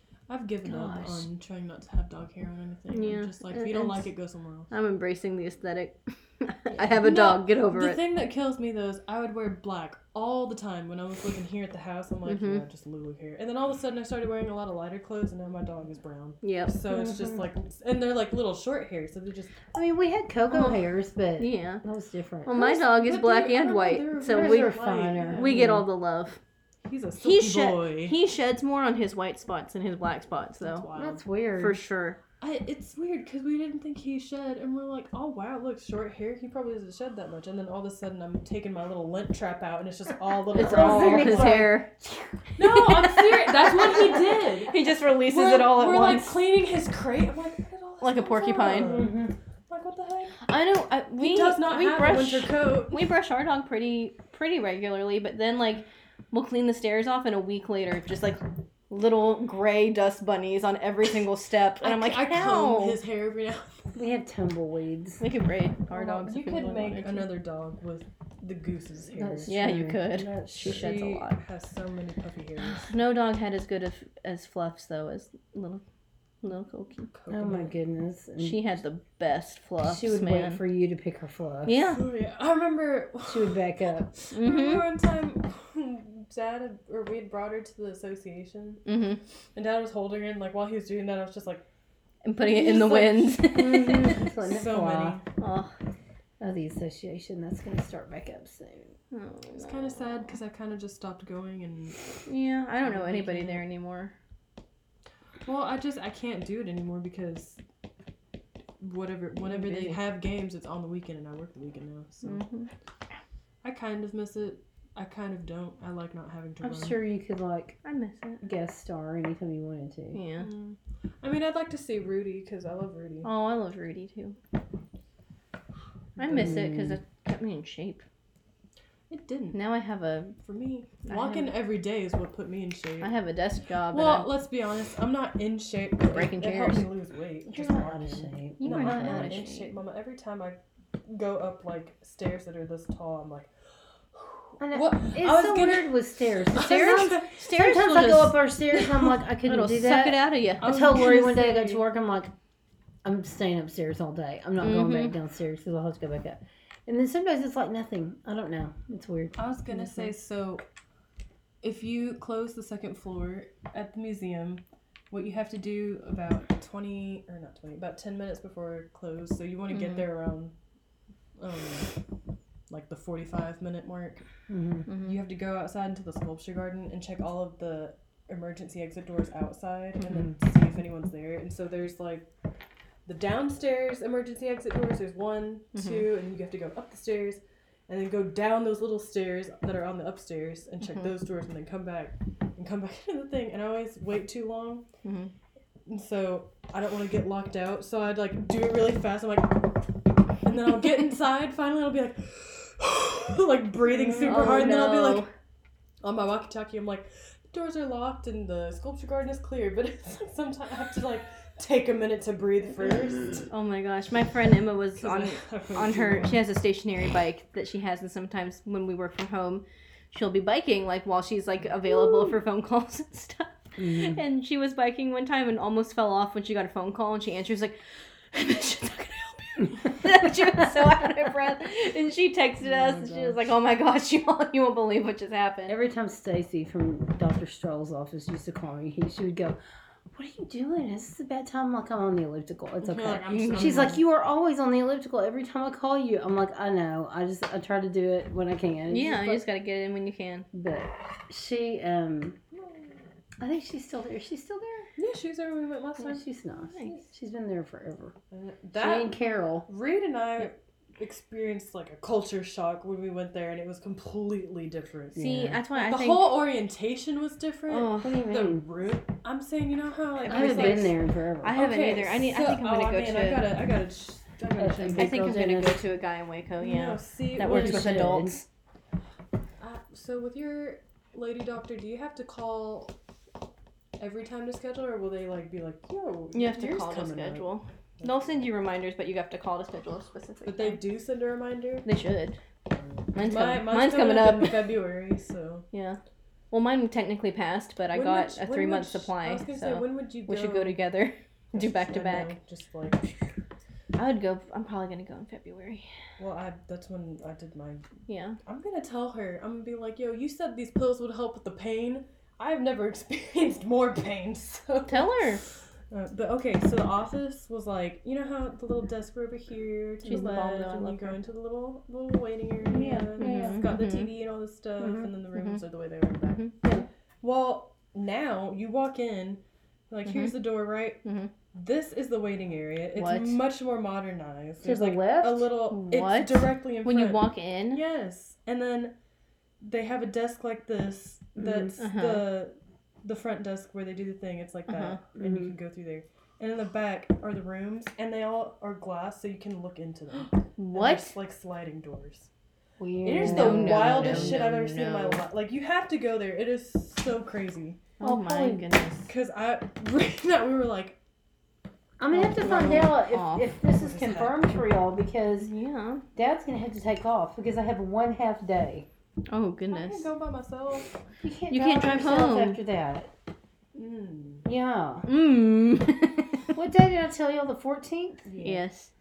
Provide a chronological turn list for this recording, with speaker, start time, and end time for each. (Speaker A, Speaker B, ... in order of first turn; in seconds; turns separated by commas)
Speaker A: 0.3-4.7, Speaker B: 0.6-1.3, Speaker C: 2.9-4.1, Speaker C: 4.7-8.0, Speaker A: 6.7-19.6, Speaker C: 12.2-12.6, Speaker C: 16.4-16.8, Speaker B: 16.9-17.4, Speaker B: 19.7-22.7, Speaker C: 20.5-20.8, Speaker C: 21.4-21.8, Speaker C: 22.4-26.4, Speaker A: 22.5-25.7, Speaker B: 24.3-25.9, Speaker A: 26.8-28.2, Speaker C: 27.2-30.9, Speaker A: 30.6-31.2, Speaker B: 30.9-31.8, Speaker C: 31.6-32.2, Speaker A: 32.4-41.7, Speaker C: 40.5-41.9, Speaker B: 40.5-42.4, Speaker A: 42.6-49.1, Speaker C: 42.6-46.5, Speaker C: 48.0-49.0, Speaker B: 48.8-49.3, Speaker A: 49.7-50.4, Speaker C: 50.4-63.0, Speaker A: 51.2-53.0, Speaker A: 61.8-63.9, Speaker B: 63.9-65.2, Speaker C: 65.2-67.2, Speaker B: 65.9-67.0, Speaker A: 66.9-69.5, Speaker B: 69.1-70.8, Speaker C: 69.5-71.4, Speaker A: 70.5-72.9, Speaker C: 72.7-75.8, Speaker C: 76.4-77.1, Speaker A: 77.1-77.8, Speaker B: 77.3-78.6, Speaker C: 78.4-80.6, Speaker B: 79.8-81.8, Speaker C: 81.7-82.0, Speaker A: 81.9-88.8, Speaker B: 83.2-84.1, Speaker C: 84.3-84.9, Speaker C: 88.8-89.2, Speaker A: 89.5-91.6, Speaker C: 92.2-94.2, Speaker A: 92.4-95.2, Speaker B: 93.5-95.2, Speaker C: 95.4-95.7, Speaker B: 96.4-98.9, Speaker C: 99.1-100.3, Speaker A: 99.5-102.0, Speaker C: 102.2-104.1, Speaker A: 102.8-103.6, Speaker A: 105.4-107.6, Speaker A: 108.8-112.4, Speaker C: 109.5-110.0, Speaker C: 112.2-112.7, Speaker A: 113.6-117.0, Speaker B: 116.6-117.8, Speaker C: 117.8-118.4, Speaker B: 118.4-120.2, Speaker C: 120.1-120.5, Speaker A: 120.4-123.3, Speaker C: 123.2-124.4, Speaker C: 126.2-128.0, Speaker A: 126.2-126.7, Speaker B: 126.3-127.0, Speaker A: 129.1-129.6, Speaker C: 129.5-130.4, Speaker A: 130.4-133.1, Speaker C: 131.1-131.5, Speaker C: 133.0-134.3, Speaker A: 133.9-143.5, Speaker C: 136.0-136.9, Speaker C: 137.5-137.9, Speaker B: 137.5-139.4, Speaker C: 138.6-139.7, Speaker A: 144.1-147.4, Speaker B: 144.6-152.3, Speaker C: 146.8-150.7, Speaker A: 150.6-151.8, Speaker B: 153.0-160.1, Speaker C: 154.6-155.1, Speaker A: 159.4-160.6, Speaker A: 161.6-170.5, Speaker C: 169.7-170.0, Speaker A: 171.4-171.9, Speaker A: 172.7-174.2, Speaker B: 174.5-174.9, Speaker C: 174.9-175.2, Speaker A: 175.0-182.3, Speaker A: 183.1-194.8, Speaker C: 185.7-186.1, Speaker C: 190.8-191.1, Speaker C: 195.0-195.3, Speaker A: 195.8-205.2, Speaker C: 203.9-205.3, Speaker A: 206.0-213.5, Speaker C: 213.5-227.8, Speaker A: 215.0-216.4, Speaker B: 223.8-224.2, Speaker C: 228.3-235.7, Speaker A: 232.6-233.4, Speaker B: 235.7-239.6, Speaker B: 240.1-249.4, Speaker A: 242.8-244.0, Speaker C: 243.3-243.8, Speaker C: 248.9-250.5, Speaker B: 250.5-252.4, Speaker B: 253.4-254.9, Speaker A: 255.0-257.0, Speaker B: 256.0-258.1, Speaker A: 258.3-259.1, Speaker B: 258.7-259.7, Speaker A: 259.6-270.9, Speaker B: 265.1-265.6, Speaker C: 265.1-266.4, Speaker C: 267.7-268.2, Speaker B: 267.9-268.7, Speaker C: 270.2-273.5, Speaker B: 270.2-271.6, Speaker A: 271.5-275.3, Speaker B: 274.6-275.8, Speaker C: 274.9-278.4, Speaker A: 276.6-278.1, Speaker B: 277.4-278.4, Speaker A: 279.6-282.9, Speaker A: 284.0-287.5, Speaker C: 286.3-290.8, Speaker A: 288.0-288.4, Speaker A: 290.4-291.9, Speaker C: 291.9-292.4, Speaker A: 292.7-295.6, Speaker C: 293.1-294.7, Speaker C: 295.7-296.0, Speaker C: 296.5-302.3, Speaker A: 297.9-300.8, Speaker A: 301.5-303.2, Speaker C: 303.9-305.9, Speaker A: 306.2-307.9, Speaker C: 308.1-308.4, Speaker A: 308.4-315.2, Speaker C: 314.9-315.4, Speaker A: 315.9-326.5, Speaker C: 320.0-321.1, Speaker B: 320.1-321.1, Speaker B: 322.7-323.6, Speaker C: 322.7-324.1, Speaker B: 324.8-325.1, Speaker C: 325.3-325.6, Speaker C: 326.3-326.8, Speaker A: 327.2-331.0, Speaker C: 330.1-330.4, Speaker C: 331.0-331.3, Speaker A: 331.5-338.9, Speaker C: 332.9-333.4, Speaker B: 334.6-335.5, Speaker C: 335.7-337.8, Speaker A: 339.6-352.3, Speaker B: 341.4-341.7, Speaker C: 341.8-342.2, Speaker C: 344.7-345.0, Speaker B: 345.1-345.5, Speaker C: 350.6-351.1, Speaker B: 352.8-355.1, Speaker A: 353.0-357.8, Speaker C: 353.1-354.5, Speaker B: 358.0-358.8, Speaker C: 358.0-359.1, Speaker A: 359.1-361.0, Speaker B: 362.0-365.5, Speaker C: 362.1-363.5, Speaker A: 362.3-362.9, Speaker A: 363.7-364.5, Speaker C: 365.4-366.0, Speaker B: 366.1-368.9, Speaker C: 369.3-370.1, Speaker A: 369.7-371.0, Speaker B: 371.2-373.1, Speaker C: 371.5-372.6, Speaker A: 373.7-374.5, Speaker B: 374.4-375.1, Speaker C: 375.1-376.5, Speaker B: 376.5-378.3, Speaker A: 378.2-378.6, Speaker C: 378.4-378.9